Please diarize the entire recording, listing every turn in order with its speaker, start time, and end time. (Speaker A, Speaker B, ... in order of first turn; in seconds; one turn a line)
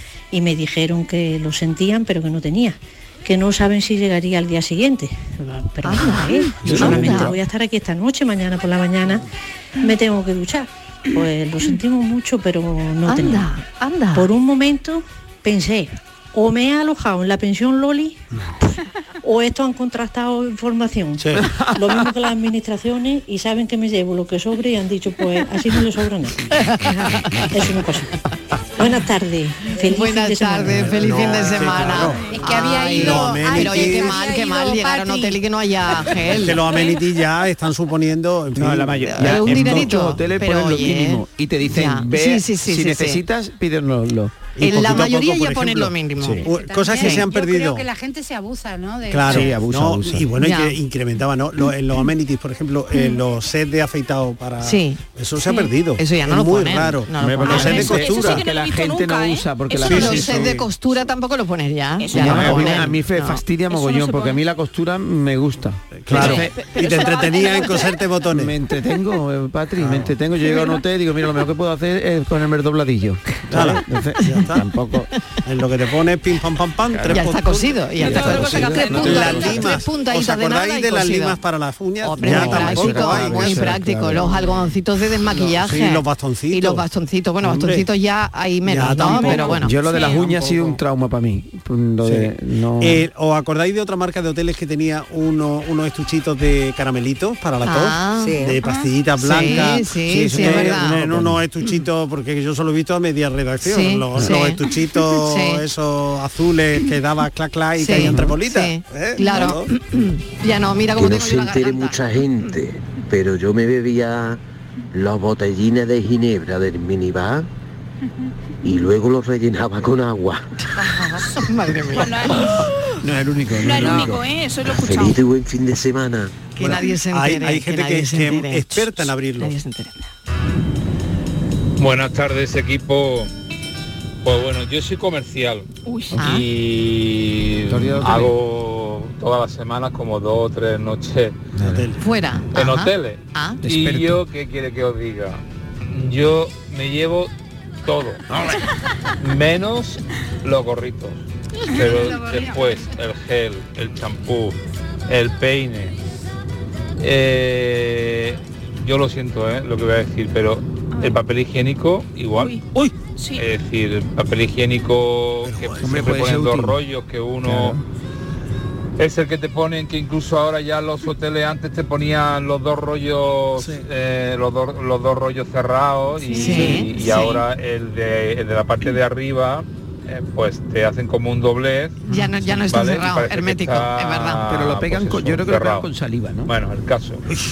Speaker A: 0.3-9.2
Speaker B: 5.8-7.3
Speaker C: 6.6-7.2
Speaker D: 6.6-7.3
Speaker A: 9.8-18.2
Speaker B: 13.3-14.2
Speaker A: 19.2-26.4
Speaker C: 21.2-21.5
Speaker B: 26.6-27.4
Speaker A: 27.4-28.1
Speaker A: 28.8-31.1
Speaker B: 29.8-36.6
Speaker C: 30.8-32.3
Speaker E: 32.2-35.4
Speaker C: 32.9-34.2
Speaker C: 36.3-39.9
Speaker D: 38.5-45.0
Speaker B: 39.1-43.2
Speaker C: 44.6-47.8
Speaker B: 44.6-47.3
Speaker E: 46.4-49.5
Speaker C: 49.1-58.4
Speaker D: 49.2-50.3
Speaker B: 50.4-50.8
Speaker B: 54.6-58.1
Speaker D: 57.2-60.3
Speaker F: 57.5-60.1
Speaker C: 59.8-60.7
Speaker B: 59.9-63.4
Speaker F: 62.0-62.9
Speaker D: 62.1-66.5
Speaker F: 63.7-64.4
Speaker C: 65.9-68.5
Speaker F: 66.2-68.0
Speaker D: 68.3-75.1
Speaker C: 69.8-70.2
Speaker C: 73.5-74.6
Speaker C: 75.4-83.8
Speaker D: 76.9-77.2
Speaker B: 77.1-81.4
Speaker D: 78.0-79.8
Speaker F: 78.1-79.1
Speaker B: 82.0-90.4
Speaker D: 82.2-84.6
Speaker C: 85.2-86.8
Speaker C: 87.4-87.8
Speaker C: 88.6-89.7
Speaker D: 89.6-93.0
Speaker F: 89.9-90.2
Speaker C: 90.4-90.7
Speaker C: 92.0-109.7
Speaker B: 97.6-98.4
Speaker B: 99.2-101.0
Speaker D: 100.1-101.4
Speaker B: 103.6-105.6
Speaker B: 107.8-112.0
Speaker D: 108.0-108.3
Speaker G: 110.9-114.4
Speaker G: 114.9-117.5
Speaker G: 118.6-120.4
Speaker B: 121.1-122.4
Speaker F: 121.9-123.0
Speaker D: 123.0-124.2
Speaker F: 123.5-125.2
Speaker G: 124.7-126.3
Speaker B: 126.5-130.1
Speaker C: 126.6-129.5
Speaker H: 131.8-133.3
Speaker H: 134.2-135.7
Speaker F: 135.8-136.2
Speaker B: 136.2-136.4
Speaker H: 136.2-141.4
Speaker D: 137.7-138.3
Speaker D: 141.6-141.9
Speaker C: 141.6-142.0
Speaker B: 142.0-143.6
Speaker H: 142.5-147.3
Speaker D: 143.6-144.2
Speaker H: 147.8-148.2
Speaker H: 149.2-151.2
Speaker H: 151.7-155.9
Speaker H: 157.0-162.6
Speaker F: 162.3-163.4
Speaker H: 163.3-167.8
Speaker C: 165.4-166.0
Speaker D: 165.8-166.8
Speaker D: 167.4-167.8
Speaker H: 169.0-185.9
Speaker B: 176.3-177.4
Speaker B: 182.1-184.4
Speaker D: 184.5-186.5
Speaker H: 186.4-187.2